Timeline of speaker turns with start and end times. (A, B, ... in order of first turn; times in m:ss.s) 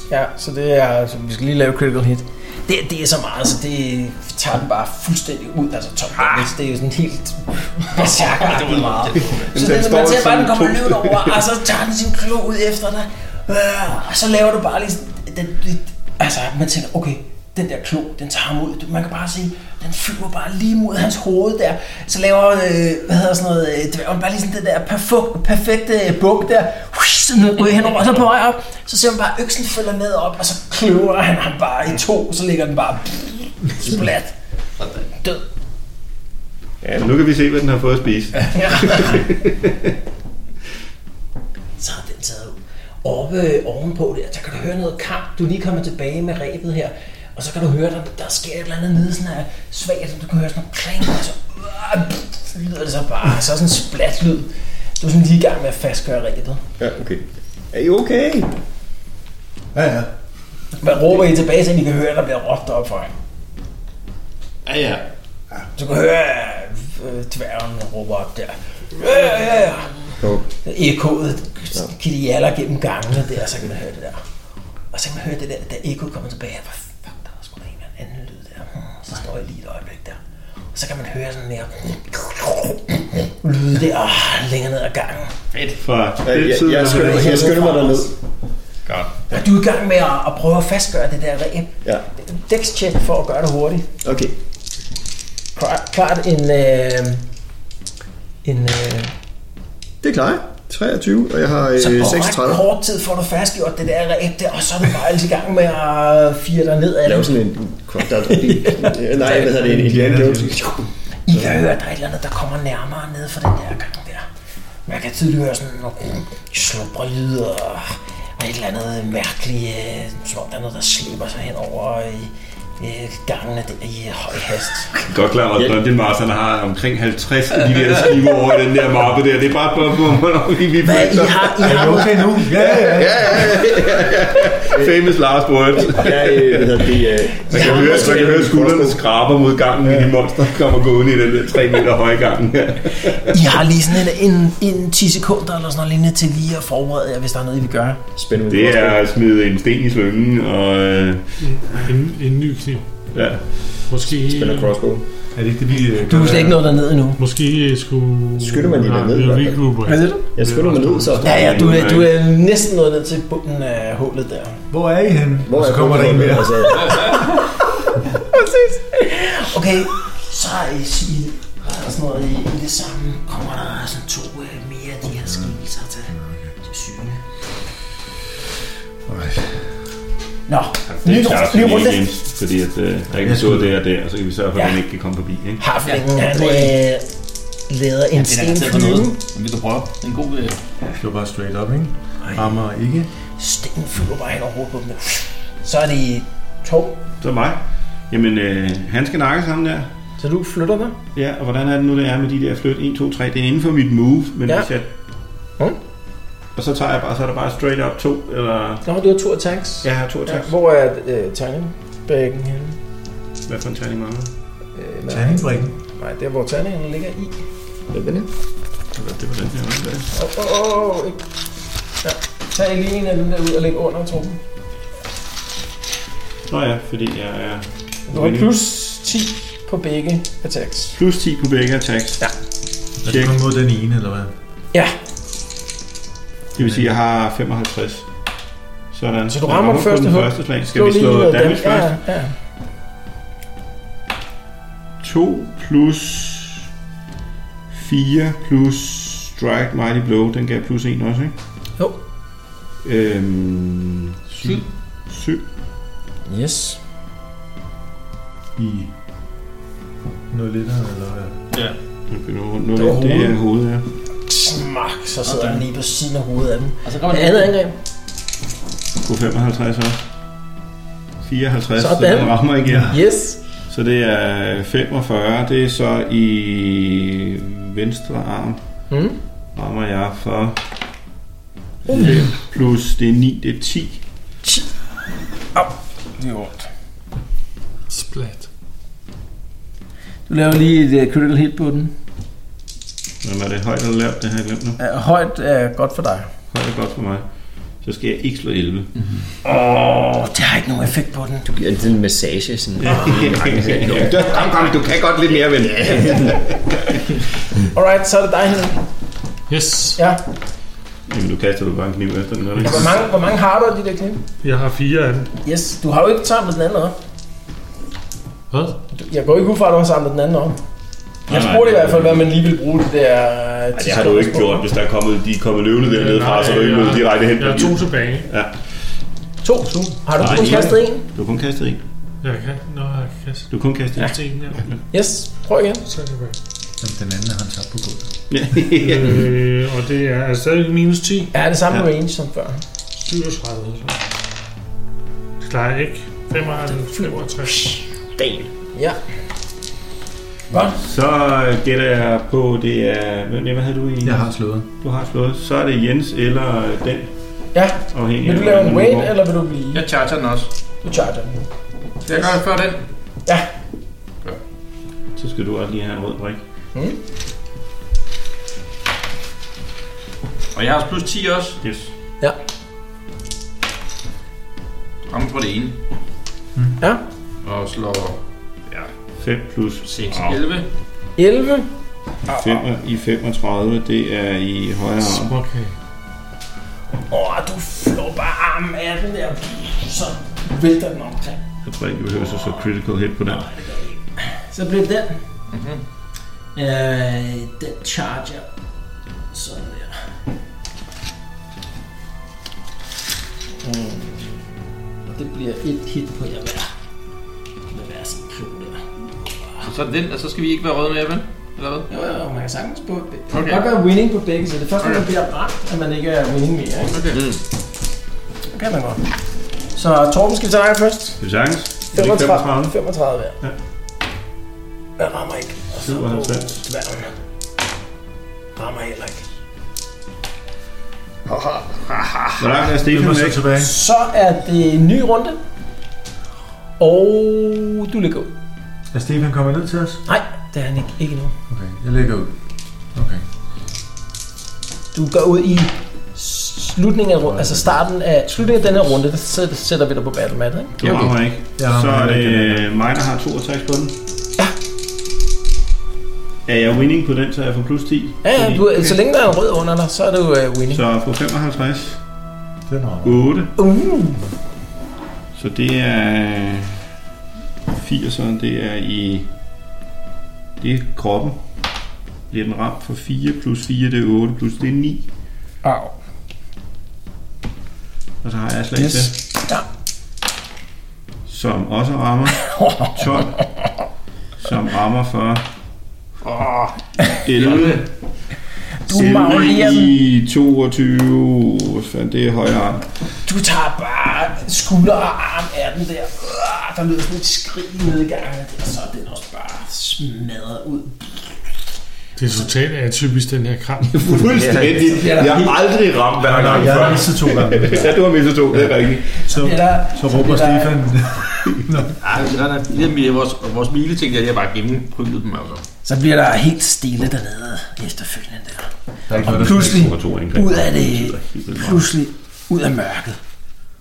0:00.1-0:34.3 A
0:06.2-0:06.5 B
0:08.0-0:09.5 B
0:09.3-0:11.4 C
0:36.8-0:37.1 D
0:36.9-0:39.9 C
0:38.6-0:39.2 A
0:41.8-0:56.6 A
0:56.8-0:58.5 D
0:59.8-1:00.1 E
1:00.8-1:03.1 A
1:04.6-1:05.1 B
1:05.8-1:14.2 A
1:10.2-1:10.5 D
1:14.9-1:20.2 A
1:20.7-1:25.3 A
1:25.5-1:25.8 B
1:25.7-1:27.7 C
1:26.2-1:28.1 D
1:26.9-1:28.0 A
1:28.9-1:29.2 B
1:29.3-1:33.9 A
1:34.0-1:34.3 D
1:35.6-1:37.2 A
1:38.4-1:39.1 A
1:40.0-1:42.6 D
1:41.8-1:47.4 A
1:47.0-1:50.8 D
1:48.0-1:49.7 A
1:49.6-1:50.7 E
1:51.3-1:54.3 A
1:54.9-2:04.9 A
2:05.1-2:12.0 C
2:10.8-2:12.5 A
2:11.6-2:13.5 E
2:12.6-2:16.8 C
2:15.9-2:19.0 D
2:17.5-2:23.4 C
2:17.5-2:18.3 A
2:23.3-2:28.0 A
2:28.2-2:29.0 D
2:28.5-2:31.9 C
2:31.4-2:32.9 F
2:33.1-2:33.9 C
2:33.9-2:34.7 F
2:34.2-2:35.0 D
2:35.3-2:36.7 E
2:36.1-2:37.2 A
2:37.2-2:41.2 F
2:38.4-2:39.7 D
2:39.8-2:40.2 A
2:40.4-2:41.7 D
2:41.2-2:44.6 A
2:41.2-2:42.1 C
2:44.7-2:47.0 E
2:45.4-2:47.2 D
2:46.8-2:47.5 A
2:48.2-2:57.2 A
2:56.1-2:56.5 E
2:59.1-2:59.4 E
3:00.5-3:02.1 A
3:00.9-3:05.6 C
3:03.2-3:03.7 E
3:05.6-3:07.1 A
3:05.8-3:06.8 B
3:07.7-3:09.2 A
3:08.2-3:10.6 B
3:11.0-3:13.1 E
3:12.2-3:12.6 A
3:13.4-3:17.0 A
3:17.2-3:19.9 C
3:20.2-3:21.0 A
3:21.2-3:24.9 C
3:26.6-3:28.8 C
3:28.8-3:32.8 A
3:29.8-3:30.5 C
3:33.5-3:34.3 C
3:34.8-3:37.4 A
3:35.1-3:35.7 E
3:37.9-3:38.3 D
3:39.0-3:40.1 C
3:40.1-3:41.2 A
3:42.0-3:44.4 A
3:46.5-3:48.5 C
3:48.1-3:51.0 A
3:50.9-3:52.2 C
3:53.0-3:54.3 E
3:53.0-3:53.4 C
3:56.6-3:58.1 C
3:58.9-4:01.9 C
3:59.3-4:02.4 A
4:05.0-4:06.7 C
4:07.7-4:11.3 C
4:12.8-4:15.4 C
4:16.3-4:16.8 A
4:18.6-4:18.9 E
4:20.3-4:21.4 E
4:22.1-4:23.9 C
4:24.3-4:27.8 A
4:25.3-4:25.6 B
4:26.8-4:27.5 B
4:29.0-4:30.0 C
4:31.2-4:33.0 C
4:31.8-4:33.4 A
4:32.7-4:33.0 E
4:33.7-4:38.6 C
4:38.9-4:39.2 A
4:39.6-4:40.6 C
4:41.9-4:42.2 A
4:41.9-4:44.0 C
4:45.6-4:46.7 A
4:47.9-4:48.5 F
4:50.3-4:51.9 A
4:53.2-4:54.8 C
4:54.8-4:56.3 A
4:56.5-4:57.2 C
4:57.8-4:58.9 C
4:59.4-5:01.6 A
5:01.5-5:06.5 D
5:02.8-5:04.4 C
5:02.9-5:03.2 A
5:04.4-5:04.7 B
5:07.6-5:08.8 A
5:09.5-5:10.0 F
5:10.0-5:10.2 A
5:11.1-5:13.1 C
5:12.6-5:14.2 A
5:14.4-5:15.3 F
5:15.4-5:17.0 A
5:18.5-5:18.8 F
5:18.9-5:20.6 A
5:21.3-5:22.3 C
5:21.3-5:24.7 A
5:23.7-5:28.6 C
5:25.9-5:28.3 F
5:29.4-5:31.0 A
5:30.2-5:31.8 C
5:30.4-5:30.7 E
5:32.2-5:33.5 F
5:33.5-5:34.8 C
5:34.0-5:34.6 F
5:34.9-5:35.8 A
5:35.8-5:36.4 F
5:36.8-5:38.1 E
5:38.3-5:39.3 C
5:38.8-5:41.3 F
5:41.3-5:42.6 A
5:42.9-5:44.0 F
5:45.4-5:47.7 F
5:46.7-5:47.9 A
5:48.2-5:48.5 D
5:48.7-5:49.0 A
5:50.5-5:50.8 A
5:50.7-5:54.3 C
5:54.0-5:54.7 E
5:54.8-5:57.1 C
5:57.5-5:59.8 A
5:57.9-5:59.1 C
5:59.7-6:00.5 B
6:00.8-6:01.5 A
6:02.1-6:02.8 B
6:02.1-6:02.4 A
6:05.2-6:06.4 C
6:10.5-6:11.6 B
6:11.6-6:11.9 C
6:15.1-6:15.8 B
6:17.4-6:18.9 B
6:19.2-6:20.4 C
6:19.8-6:20.7 B
6:21.2-6:21.7 A
6:22.3-6:22.6 A
6:22.3-6:25.4 C
6:25.1-6:25.7 F
6:27.1-6:31.4 A
6:31.6-6:33.6 C
6:32.2-6:32.7 A
6:33.3-6:35.2 A
6:35.5-6:35.8 B
6:36.6-6:38.5 A
6:39.3-6:40.1 A
6:43.6-6:44.4 A
6:45.1-6:46.7 A
6:47.7-6:49.7 A
6:49.6-6:51.9 B
6:51.9-6:57.2 A
6:53.3-6:53.6 B
6:56.9-6:57.2 B
6:57.1-6:57.4 D
6:58.5-6:59.1 A
6:59.8-7:01.2 A
7:01.2-7:02.8 C
7:01.9-7:03.4 A
7:05.0-7:07.1 A
7:05.8-7:06.6 C
7:08.6-7:09.3 A
7:11.6-7:12.2 B
7:12.4-7:13.5 C
7:12.8-7:13.7 E
7:13.6-7:15.4 A
7:16.8-7:18.3 A
7:18.9-7:20.0 E
7:20.1-7:21.4 A
7:21.5-7:22.4 E
7:22.9-7:23.2 E
7:24.9-7:31.1 A
7:27.3-7:27.7 E
7:30.8-7:33.9 C
7:31.6-7:32.7 E
7:36.5-7:39.0 C
7:38.2-7:40.8 A
7:40.7-7:42.0 C
7:42.7-7:43.2 E
7:43.0-7:43.5 C
7:43.6-7:44.2 A
7:45.4-7:46.8 C
7:47.7-7:49.3 C
7:50.6-7:51.4 C
7:52.3-7:55.1 C
7:55.6-7:55.9 A
7:58.2-7:59.2 C
7:58.8-7:59.7 A
8:01.3-8:03.4 C
8:02.4-8:03.0 A
8:04.4-8:05.5 C
8:06.2-8:06.8 B
8:07.2-8:07.9 C
8:07.4-8:07.8 B
8:08.9-8:10.0 A
8:08.9-8:12.9 C
8:13.2-8:21.2 A
8:22.2-8:24.2 F
8:23.9-8:29.2 C
8:24.4-8:24.8 D
8:24.9-8:25.6 A
8:26.2-8:28.0 E
8:29.2-8:31.3 A
8:29.2-8:32.0 E
8:32.0-8:35.7 B
8:35.8-8:43.2 A
8:39.1-8:39.9 E
8:39.2-8:41.9 C